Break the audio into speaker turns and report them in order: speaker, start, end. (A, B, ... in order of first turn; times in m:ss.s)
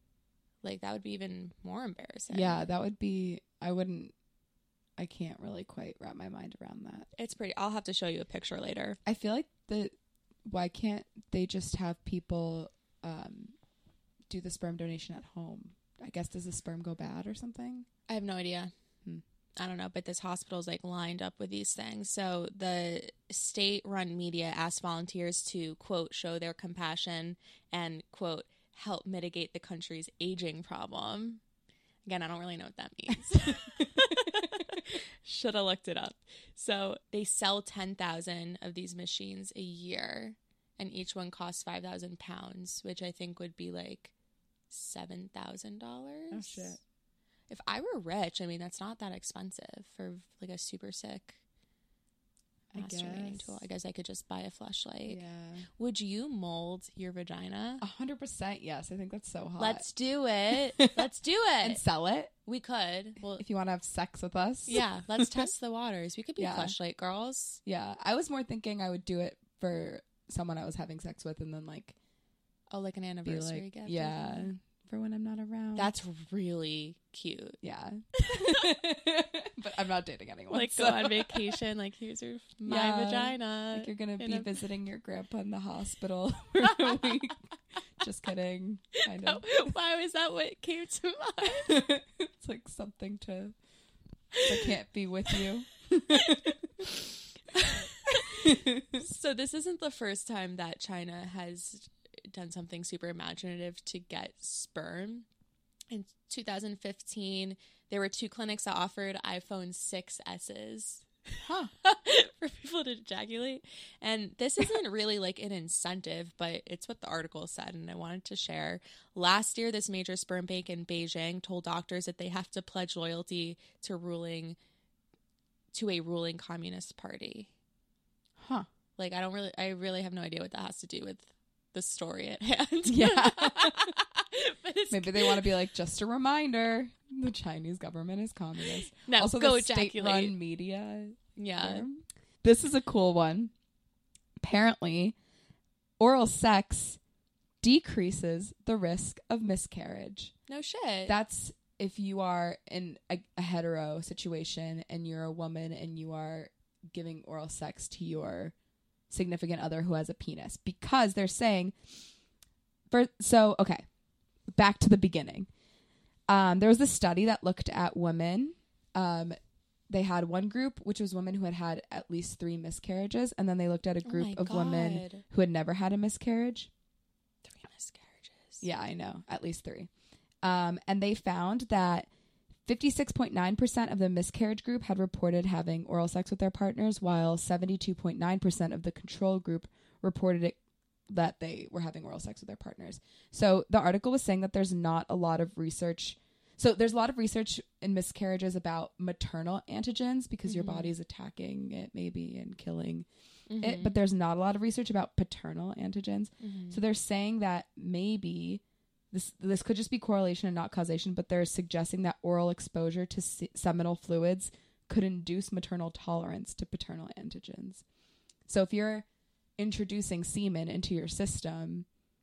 0:00.6-0:02.6 A
0:02.3-0:04.1 B
0:05.0-0:07.1 B
0:07.2-0:09.0 A
0:09.0-0:09.9 B
0:10.5-0:13.5 B
0:14.3-0:17.8 B
0:18.1-0:18.7 A
0:19.6-0:31.4 A
0:32.0-0:44.1 A
0:33.8-0:34.1 B
0:44.7-0:46.7 A
0:46.3-0:46.8 B
0:47.5-0:51.4 A
0:52.7-0:53.6 B
0:52.7-0:55.2 A
0:55.1-0:55.7 B
0:55.8-0:57.8 A
0:57.8-0:59.8 B
0:59.6-1:01.8 A
1:01.6-1:02.3 B
1:02.4-1:03.4 A
1:03.4-1:05.5 B
1:04.6-1:07.6 A
1:06.4-1:06.7 B
1:07.6-1:11.9 B
1:12.7-1:14.5 A
1:13.2-1:15.9 B
1:15.7-1:17.6 A
1:17.6-1:21.6 B
1:18.2-1:18.7 A
1:20.5-1:24.5 A
1:22.6-1:27.4 B
1:26.6-1:27.1 A
1:28.0-1:29.5 B
1:29.0-1:31.8 A
1:31.6-1:33.5 B
1:34.3-1:34.7 A
1:34.4-1:36.7 B
1:36.1-1:36.5 A
1:37.5-1:45.2 A
1:38.2-1:39.0 B
1:45.9-2:04.6 A
1:51.4-1:51.7 B
2:05.7-2:07.5 A
2:08.4-2:08.7 B
2:09.0-2:15.5 A
2:12.9-2:13.9 B
2:14.9-2:23.5 B
2:18.6-2:20.4 A
2:21.4-2:21.8 A
2:24.4-2:25.2 B
2:26.0-2:27.0 B
2:27.6-2:30.3 B
2:30.5-2:31.1 A
2:31.1-2:38.5 B
2:39.1-2:42.0 B
2:42.9-2:43.8 B
2:44.5-2:45.5 B
2:46.3-2:49.4 B
2:49.9-2:56.7 B
2:54.0-2:55.2 A
2:57.4-2:58.6 A
2:58.6-2:59.9 B
3:00.4-3:02.1 B
3:02.6-3:23.1 B
3:20.5-3:20.9 A
3:23.5-3:24.0 A
3:23.6-3:37.8 B
3:26.4-3:26.8 A
3:38.5-3:41.9 B